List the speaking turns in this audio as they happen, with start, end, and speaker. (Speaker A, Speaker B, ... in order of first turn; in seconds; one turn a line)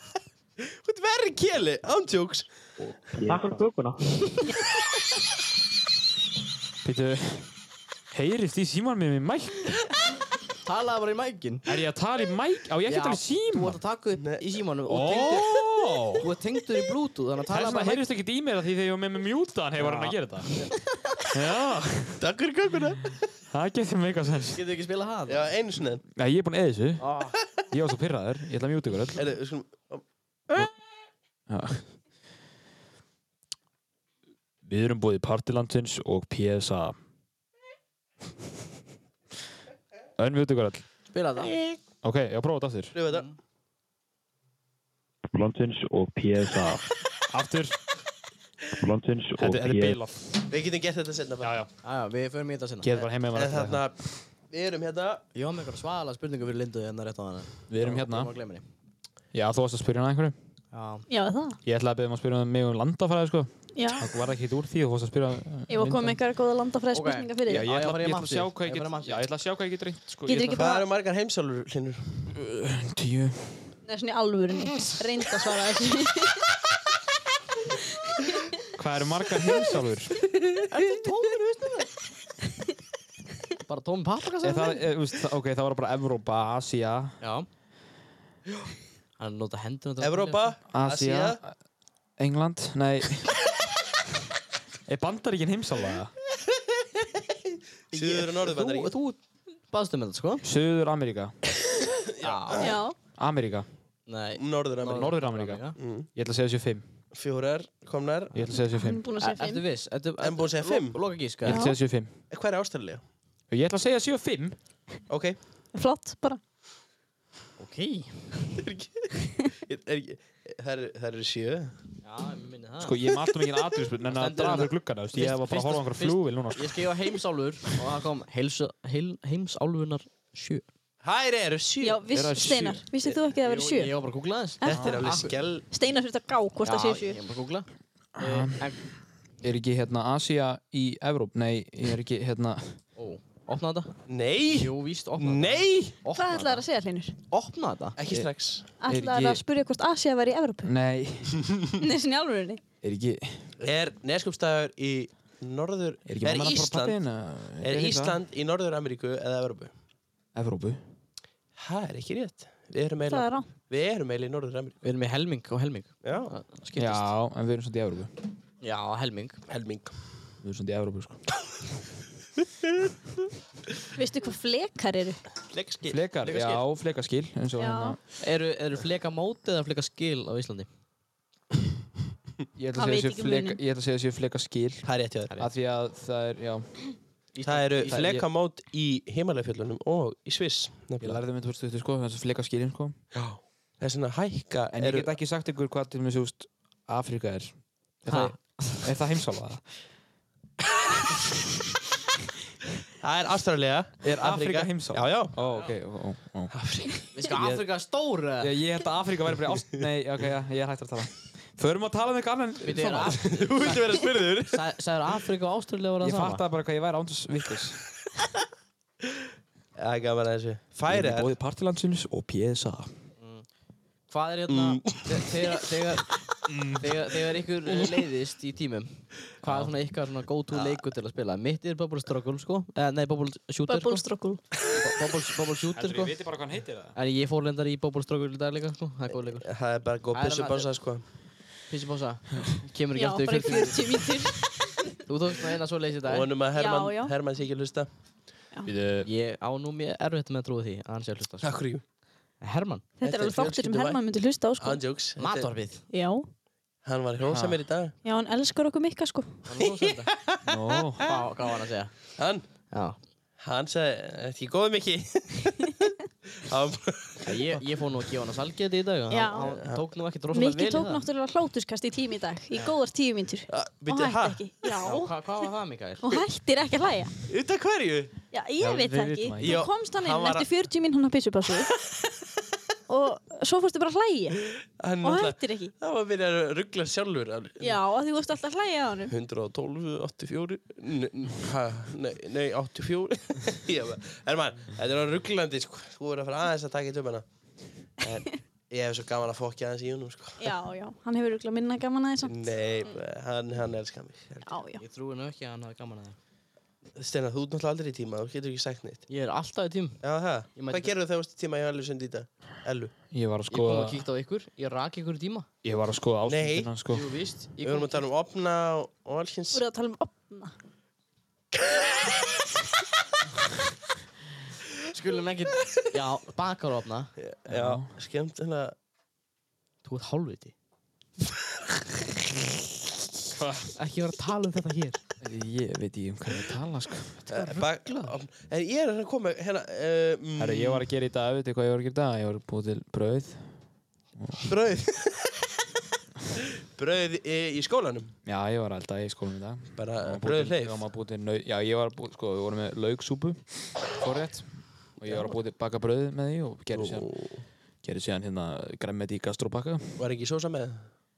Speaker A: 0.8-2.6
Speaker B: 2.8-3.6
Speaker C: 3.2-4.4
Speaker B: 6.8-7.5
Speaker B: 8.1-9.7
Speaker C: 10.7-11.7
Speaker B: 11.7-13.8
Speaker C: 12.9-15.6
Speaker B: 14.9-16.3
Speaker C: 16.2-18.1
Speaker B: 17.5-20.8
Speaker C: 19.8-20.8
Speaker B: 21.3-22.2
Speaker A: 22.2-23.0
Speaker B: 23.5-24.6
Speaker C: 24.5-25.5
Speaker A: 25.3-26.0
Speaker B: 26.1-27.1
Speaker C: 27.0-27.4
Speaker B: 27.7-29.2
Speaker A: 29.2-30.0
Speaker B: 31.5-31.9
Speaker B: 34.6-37.0
Speaker B: 40.2-40.8
Speaker C: 41.1-41.6
Speaker A: 41.5-41.8
Speaker B: 42.0-43.0
Speaker A: 42.9-43.3
Speaker C: 43.1-43.4
Speaker D: 45.3-46.9
Speaker B: 47.3-47.8
Speaker D: 48.8-50.0
Speaker B: 49.4-50.5
Speaker A: 50.5-51.5
Speaker B: 51.4-51.7
Speaker C: 51.8-52.9
Speaker B: 52.8-53.8
Speaker A: 53.0-55.2
Speaker C: 55.4-58.6
Speaker B: 57.7-58.3
Speaker B: 59.3-60.4
Speaker C: 60.7-61.1
Speaker E: 61.1-61.6
Speaker B: 61.6-66.2
Speaker E: 63.7-64.1
Speaker E: 65.7-67.7
Speaker C: 66.9-69.3
Speaker B: 67.5-70.7
Speaker E: 70.2-70.9
Speaker A: 70.6-72.2
Speaker B: 72.3-73.7
Speaker E: 73.8-76.4
Speaker B: 78.8-80.1
Speaker C: 80.7-81.9
Speaker C: 83.7-84.8
Speaker B: 84.4-87.2
Speaker C: 87.2-87.5
Speaker C: 89.2-90.5
Speaker A: 90.0-91.4
Speaker B: 90.7-91.6
Speaker B: 92.2-93.3
Speaker B: 94.9-96.1
Speaker C: 97.9-100.5
Speaker A: 97.9-98.9
Speaker B: 100.4-101.3
Speaker A: 102.2-102.8
Speaker C: 102.2-102.8
Speaker E: 102.6-103.0
Speaker B: 103.1-103.7
Speaker C: 104.1-105.8
Speaker A: 104.4-105.1
Speaker B: 104.9-106.8
Speaker A: 105.8-106.1
Speaker A: 107.1-108.4
Speaker B: 108.3-109.0
Speaker E: 108.7-109.6
Speaker C: 109.2-111.7
Speaker A: 110.2-111.0
Speaker B: 111.4-112.2
Speaker E: 111.5-111.8
Speaker A: 112.3-113.0
Speaker B: 113.5-114.6
Speaker A: 115.1-115.4
Speaker E: 115.7-116.4
Speaker C: 117.6-118.3
Speaker A: 118.6-119.1
Speaker A: 119.6-121.8
Speaker C: 122.0-123.0
Speaker B: 122.8-126.8
Speaker C: 124.0-130.7
Speaker A: 131.0-132.4
Speaker E: 131.8-133.9
Speaker B: 132.1-132.8
Speaker C: 133.3-135.3
Speaker E: 134.6-137.2
Speaker A: 134.6-135.7
Speaker C: 136.6-137.7
Speaker B: 138.2-138.7
Speaker C: 138.2-138.8
Speaker B: 139.4-142.8
Speaker C: 143.0-143.9
Speaker A: 144.1-146.0
Speaker C: 144.5-146.7
Speaker E: 146.1-147.1
Speaker C: 147.3-148.0
Speaker A: 148.0-148.8
Speaker E: 148.8-150.7
Speaker B: 148.8-149.4
Speaker B: 150.6-151.4
Speaker E: 151.8-152.6
Speaker B: 152.8-153.4
Speaker A: 153.6-157.0
Speaker B: 156.1-158.2
Speaker A: 157.6-159.7
Speaker B: 160.3-160.8
Speaker A: 161.6-164.8
Speaker E: 163.1-163.5
Speaker C: 164.8-167.1
Speaker A: 166.0-166.3
Speaker B: 166.8-168.1
Speaker C: 168.6-169.4
Speaker A: 169.5-169.9
Speaker B: 170.4-171.2
Speaker E: 174.0-175.2
Speaker A: 175.5-176.0
Speaker B: 175.9-178.0
Speaker C: 176.2-176.6
Speaker E: 177.6-178.0
Speaker C: 178.2-180.7
Speaker B: 182.6-186.7
Speaker E: 182.8-183.6
Speaker A: 184.8-185.3
Speaker C: 187.3-188.1
Speaker A: 187.5-191.2
Speaker B: 187.9-188.3
Speaker B: 191.0-193.0
Speaker A: 193.1-195.1
Speaker B: 194.7-199.7
Speaker C: 198.1-198.9
Speaker A: 203.0-205.3
Speaker B: 204.0-206.5
Speaker C: 205.4-205.7
Speaker A: 206.5-207.6
Speaker C: 207.1-208.5
Speaker B: 208.4-213.4
Speaker C: 212.6-213.8
Speaker A: 213.2-214.6
Speaker C: 214.5-216.4
Speaker B: 216.0-217.8
Speaker A: 219.8-221.3
Speaker B: 220.9-222.9
Speaker C: 223.2-223.5
Speaker C: 224.1-226.1
Speaker A: 224.5-225.2
Speaker B: 226.5-227.0
Speaker C: 226.8-234.1
Speaker B: 229.4-229.7
Speaker E: 233.7-234.4
Speaker C: 234.6-236.2
Speaker B: 235.7-236.9
Speaker C: 236.9-239.6
Speaker A: 239.4-241.0
Speaker C: 240.1-240.7
Speaker C: 241.7-244.1
Speaker E: 242.9-244.7
Speaker C: 245.1-246.3
Speaker A: 246.0-247.9
Speaker E: 246.5-247.2
Speaker B: 248.7-249.1
Speaker C: 249.0-251.7
Speaker A: 251.4-251.8
Speaker C: 252.4-252.8
Speaker E: 253.0-254.9
Speaker A: 253.0-254.0
Speaker A: 254.6-255.5
Speaker C: 255.2-255.9
Speaker E: 255.9-256.3
Speaker A: 256.8-257.9
Speaker C: 257.3-257.6
Speaker E: 258.0-259.4
Speaker C: 259.5-260.1
Speaker A: 259.6-260.5
Speaker B: 260.5-261.2
Speaker C: 261.0-262.1
Speaker A: 262.2-262.7
Speaker C: 262.7-263.0
Speaker A: 263.4-265.6
Speaker A: 266.4-267.3
Speaker C: 267.2-271.1
Speaker E: 269.1-269.6
Speaker E: 270.3-275.2
Speaker A: 273.5-274.5
Speaker C: 274.8-276.2
Speaker E: 276.0-277.1
Speaker A: 277.3-278.1
Speaker E: 278.3-281.7
Speaker B: 278.6-279.7
Speaker A: 279.4-280.5
Speaker E: 282.9-284.4
Speaker A: 284.8-287.7
Speaker E: 285.0-285.7
Speaker E: 287.6-289.1
Speaker A: 289.1-297.3
Speaker A: 298.0-300.5
Speaker E: 300.4-302.5
Speaker A: 302.2-304.6
Speaker E: 304.4-304.8
Speaker C: 304.8-306.2
Speaker A: 307.0-309.1
Speaker C: 309.1-310.9
Speaker A: 310.0-312.9
Speaker B: 313.1-314.0
Speaker C: 313.5-315.5
Speaker B: 315.6-317.1
Speaker A: 316.3-316.7
Speaker C: 316.9-318.1
Speaker A: 317.6-319.6
Speaker E: 319.5-320.5
Speaker C: 324.9-327.1
Speaker A: 327.2-328.7
Speaker B: 327.5-328.0
Speaker C: 329.8-330.5
Speaker B: 333.3-333.8
Speaker C: 333.8-335.0
Speaker B: 335.2-337.3
Speaker A: 337.3-340.8
Speaker C: 337.3-338.2
Speaker B: 340.4-343.6
Speaker B: 344.2-344.5
Speaker A: 344.5-345.3
Speaker A: 346.8-348.1
Speaker B: 348.2-357.1
Speaker A: 349.8-350.8
Speaker A: 356.7-357.4
Speaker B: 357.8-360.1
Speaker A: 360.0-360.9